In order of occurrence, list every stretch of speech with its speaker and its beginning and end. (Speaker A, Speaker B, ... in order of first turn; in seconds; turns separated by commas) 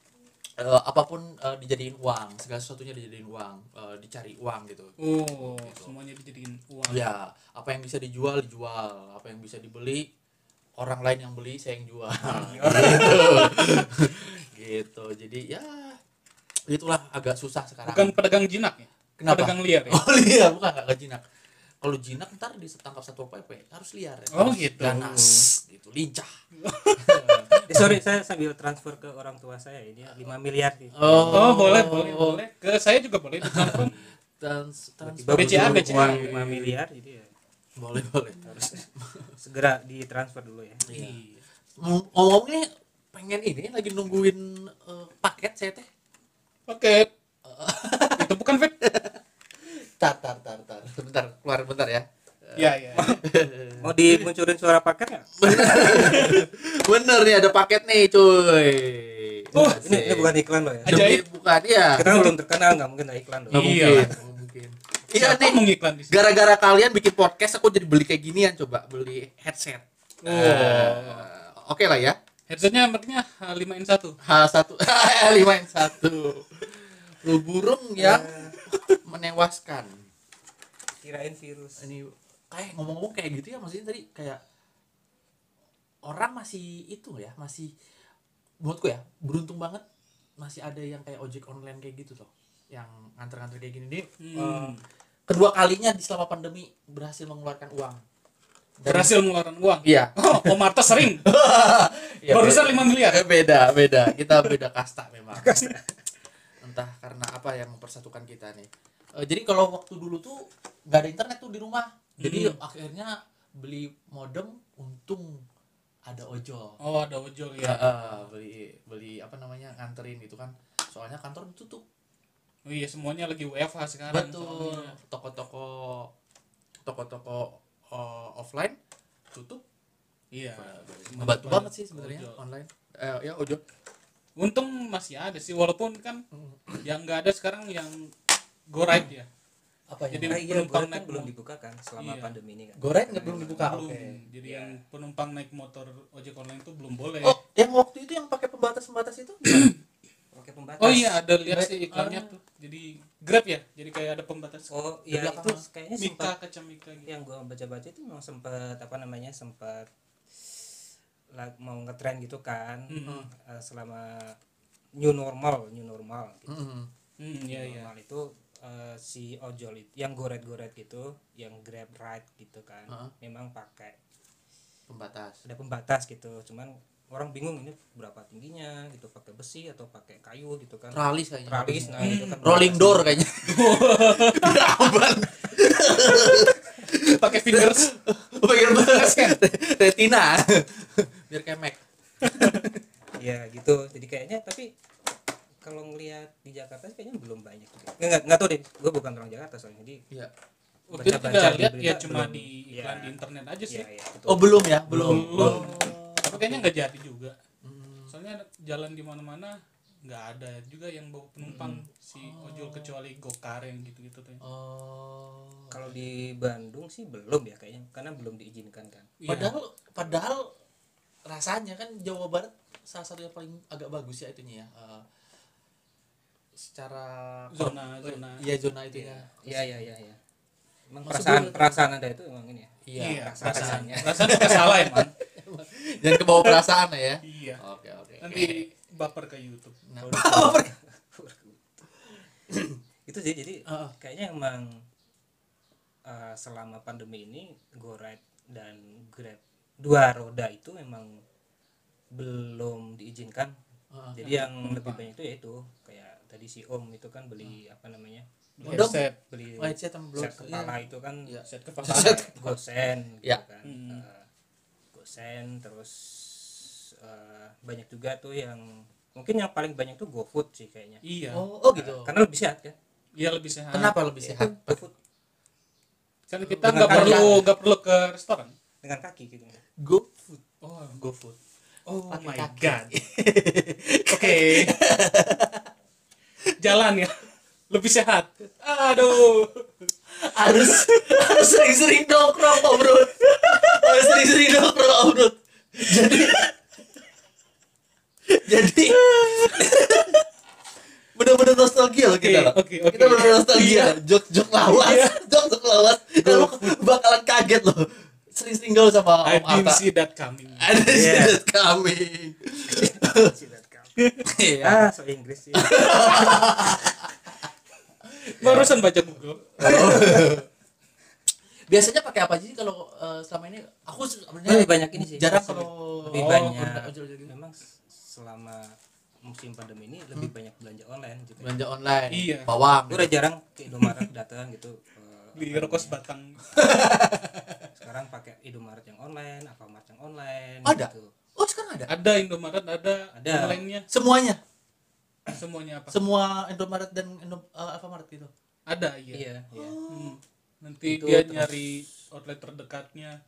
Speaker A: 0.6-5.9, Speaker B: 5.0-7.0, Speaker A: 6.9-10.1, Speaker A: 10.8-16.0, Speaker C: 12.3-13.5, Speaker B: 12.7-13.8, Speaker A: 16.7-18.2, Speaker B: 17.9-20.0, Speaker A: 19.2-21.2, Speaker A: 21.8-26.3, Speaker B: 24.3-25.4, Speaker B: 26.6-27.5, Speaker A: 26.9-28.0, Speaker C: 27.7-31.7, Speaker A: 30.9-32.4, Speaker B: 31.3-33.9, Speaker A: 33.4-36.5, Speaker C: 33.7-34.0, Speaker C: 35.0-37.3, Speaker B: 35.3-36.7, Speaker A: 37.8-39.3, Speaker C: 38.5-38.8, Speaker C: 39.4-40.9, Speaker A: 40.9-41.2, Speaker B: 40.9-41.4, Speaker A: 41.8-45.9, Speaker B: 46.7-47.1, Speaker A: 47.4-54.0, Speaker B: 48.2-48.7, Speaker B: 52.5-53.1, Speaker C: 52.9-53.2, Speaker C: 53.8-56.1, Speaker A: 55.4-62.1, Speaker B: 55.7-56.4, Speaker C: 59.5-61.2, Speaker B: 59.5-59.8, Speaker B: 60.9-61.2, Speaker C: 61.9-64.1, Speaker B: 62.0-62.3, Speaker A: 63.5-72.2, Speaker B: 63.5-64.1, Speaker B: 65.1-66.2, Speaker B: 70.2-71.3, Speaker B: 72.5-74.2, Speaker A: 74.2-80.0, Speaker C: 78.0-78.6, Speaker C: 81.0-81.9, Speaker A: 81.8-84.4, Speaker A: 86.0-87.7, Speaker A: 88.6-89.8, Speaker A: 90.4-94.8, Speaker B: 94.2-94.8, Speaker A: 95.3-98.0, Speaker A: 98.8-99.1, Speaker B: 98.9-101.2, Speaker A: 99.8-105.7, Speaker B: 102.3-103.3, Speaker C: 105.3-105.9, Speaker A: 106.6-115.4, Speaker B: 112.2-112.6, Speaker A: 116.1-116.8, Speaker B: 116.8-118.0, Speaker A: 117.6-121.8, Speaker B: 122.7-124.9, Speaker A: 124.1-126.1, Speaker A: 126.8-128.8, Speaker A: 129.3-129.6, Speaker B: 130.3-132.4, Speaker A: 130.5-133.6, Speaker B: 134.4-136.2, Speaker A: 136.3-136.8, Speaker B: 136.8-138.1, Speaker B: 138.7-139.3, Speaker A: 139.9-140.5, Speaker B: 140.1-141.3, Speaker C: 140.3-143.7, Speaker B: 142.0-142.3, Speaker A: 142.8-144.2, Speaker B: 143.6-147.4, Speaker C: 144.4-144.8, Speaker A: 147.2-149.7, Speaker B: 149.4-149.8, Speaker C: 150.3-151.2, Speaker B: 150.8-154.7, Speaker A: 151.4-152.3, Speaker C: 154.7-156.3, Speaker A: 155.1-155.6, Speaker B: 156.0-157.1, Speaker C: 157.0-159.9, Speaker C: 161.3-164.4, Speaker B: 162.9-163.3, Speaker C: 165.0-166.5, Speaker A: 166.5-166.9, Speaker B: 167.2-167.9, Speaker C: 167.5-174.0, Speaker A: 174.9-175.4, Speaker C: 175.4-183.3, Speaker A: 180.9-192.8, Speaker B: 182.0-182.6, Speaker B: 183.4-184.8, Speaker B: 186.9-187.9, Speaker B: 188.8-189.4, Speaker B: 192.2-192.6, Speaker C: 193.2-194.7, Speaker C: 195.6-200.0, Speaker B: 200.9-203.9, Speaker C: 200.9-203.1, Speaker C: 203.7-205.8, Speaker A: 204.3-206.7, Speaker B: 204.9-207.3, Speaker A: 207.6-208.1, Speaker B: 208.1-214.4, Speaker C: 211.5-211.8, Speaker A: 212.1-212.9, Speaker A: 214.4-216.0, Speaker C: 215.7-219.1, Speaker B: 219.2-219.5, Speaker A: 219.3-220.5, Speaker A: 221.2-225.0, Speaker A: 226.6-229.8, Speaker B: 227.5-228.5, Speaker C: 228.9-230.2, Speaker C: 230.9-234.3, Speaker A: 231.0-231.8, Speaker A: 232.8-238.6, Speaker B: 232.9-235.1, Speaker B: 236.4-236.6, Speaker B: 237.2-237.6, Speaker B: 238.2-239.8, Speaker A: 239.9-240.7, Speaker C: 240.0-241.8, Speaker A: 242.5-242.8, Speaker C: 243.1-244.8, Speaker A: 243.7-243.9, Speaker C: 246.0-251.2, Speaker C: 252.1-253.6, Speaker A: 253.9-254.3, Speaker C: 254.1-264.3, Speaker B: 254.2-255.0, Speaker B: 258.6-259.1, Speaker A: 258.6-259.0, Speaker A: 259.6-262.6, Speaker B: 261.5-262.2, Speaker B: 263.6-264.0, Speaker C: 264.9-271.0, Speaker B: 271.0-271.4, Speaker A: 271.3-272.1, Speaker C: 271.7-272.8, Speaker B: 273.1-274.0, Speaker A: 273.7-274.8, Speaker C: 274.2-274.9, Speaker B: 276.3-278.5, Speaker A: 276.4-277.4, Speaker C: 276.6-277.4, Speaker C: 278.8-279.6, Speaker A: 279.8-280.4, Speaker B: 280.6-282.9, Speaker A: 282.1-285.7, Speaker B: 284.1-284.8, Speaker B: 286.6-287.1, Speaker B: 287.7-289.7, Speaker A: 290.1-296.5, Speaker A: 298.3-300.2, Speaker A: 301.1-309.8, Speaker B: 302.2-304.0, Speaker B: 304.6-305.2, Speaker B: 306.2-306.8, Speaker B: 309.2-310.7, Speaker A: 310.6-313.3, Speaker C: 310.8-311.4, Speaker C: 312.7-313.9, Speaker B: 314.0-314.2, Speaker A: 314.2-314.8, Speaker C: 314.6-316.6, Speaker A: 315.5-317.3, Speaker A: 318.1-318.8, Speaker B: 318.4-320.2, Speaker A: 319.6-320.5, Speaker C: 319.6-320.3, Speaker A: 321.7-327.3, Speaker C: 324.4-331.6, Speaker B: 326.1-326.6, Speaker A: 331.4-333.1, Speaker B: 332.1-332.5, Speaker C: 332.9-336.0, Speaker B: 335.4-336.4, Speaker A: 336.5-337.6, Speaker C: 337.7-341.1, Speaker A: 340.6-341.9, Speaker B: 341.9-343.9, Speaker C: 343.1-343.6, Speaker A: 343.9-344.4, Speaker B: 345.3-346.0, Speaker A: 345.9-348.3, Speaker B: 348.7-349.2, Speaker C: 349.1-349.8, Speaker A: 349.5-350.2, Speaker B: 349.9-353.2, Speaker C: 350.9-351.5